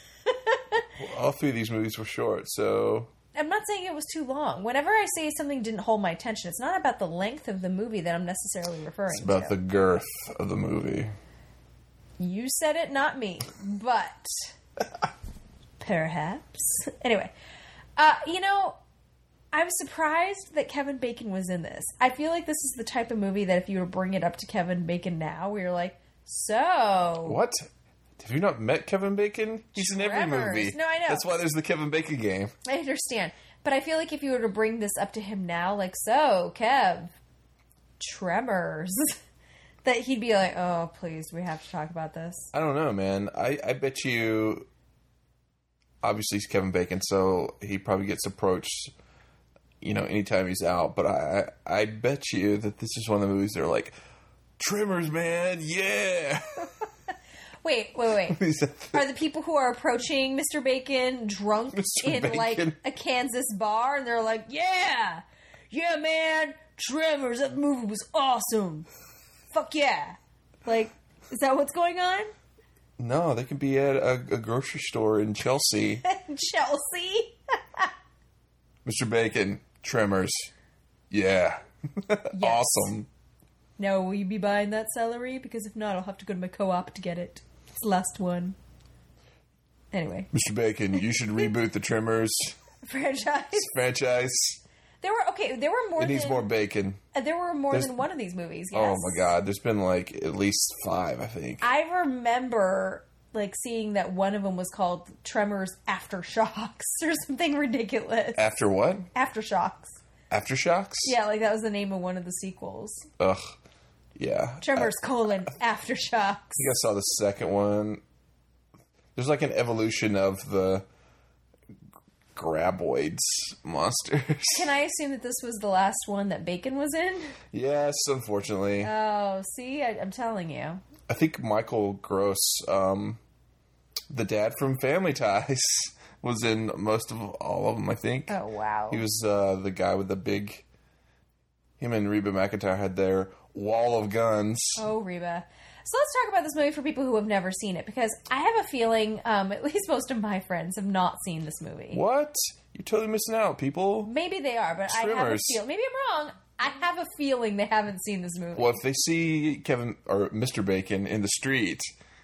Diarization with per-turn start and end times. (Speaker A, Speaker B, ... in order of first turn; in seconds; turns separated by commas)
Speaker A: 0.2-0.8, Speaker B: 1.0-3.1, Speaker A: 3.3-9.5, Speaker B: 9.1-11.1, Speaker A: 12.2-14.5, Speaker A: 15.8-17.3, Speaker A: 18.0-18.8, Speaker A: 19.5-27.4, Speaker B: 27.2-32.5, Speaker A: 29.7-31.2, Speaker A: 32.6-37.1, Speaker A: 38.0-39.2, Speaker A: 39.8-42.5, Speaker B: 42.5-44.7, Speaker B: 46.0-48.9, Speaker B: 49.8-53.9, Speaker B: 54.6-56.7, Speaker A: 57.6-58.4, Speaker B: 58.2-59.0, Speaker A: 58.9-68.9, Speaker B: 61.7-62.8, Speaker A: 69.5-72.3, Speaker B: 73.0-76.0, Speaker A: 76.0-77.9, Speaker B: 78.8-80.5, Speaker B: 81.1-83.1, Speaker A: 82.3-82.9, Speaker A: 83.8-88.5, Speaker A: 89.9-90.3, Speaker B: 90.3-92.6, Speaker A: 92.8-93.7, Speaker B: 93.5-94.6, Speaker A: 95.0-96.5, Speaker B: 96.0-97.0, Speaker A: 97.1-99.3, Speaker B: 97.7-98.0, Speaker B: 98.7-101.6, Speaker A: 101.6-108.4, Speaker B: 108.3-109.1, Speaker A: 109.1-110.0, Speaker B: 110.3-111.1, Speaker A: 111.0-113.0, Speaker B: 113.2-113.5, Speaker B: 114.2-114.9, Speaker A: 114.6-116.7, Speaker B: 116.6-118.0, Speaker B: 119.1-120.8, Speaker B: 122.3-124.7, Speaker A: 124.5-127.3, Speaker B: 127.5-128.9, Speaker A: 128.8-130.8, Speaker B: 131.1-133.2, Speaker B: 134.1-138.4, Speaker A: 138.3-139.0, Speaker B: 138.9-140.6, Speaker B: 141.8-144.8, Speaker A: 144.8-152.0, Speaker B: 151.9-154.1, Speaker A: 154.1-158.8, Speaker B: 154.9-155.6, Speaker B: 158.5-161.9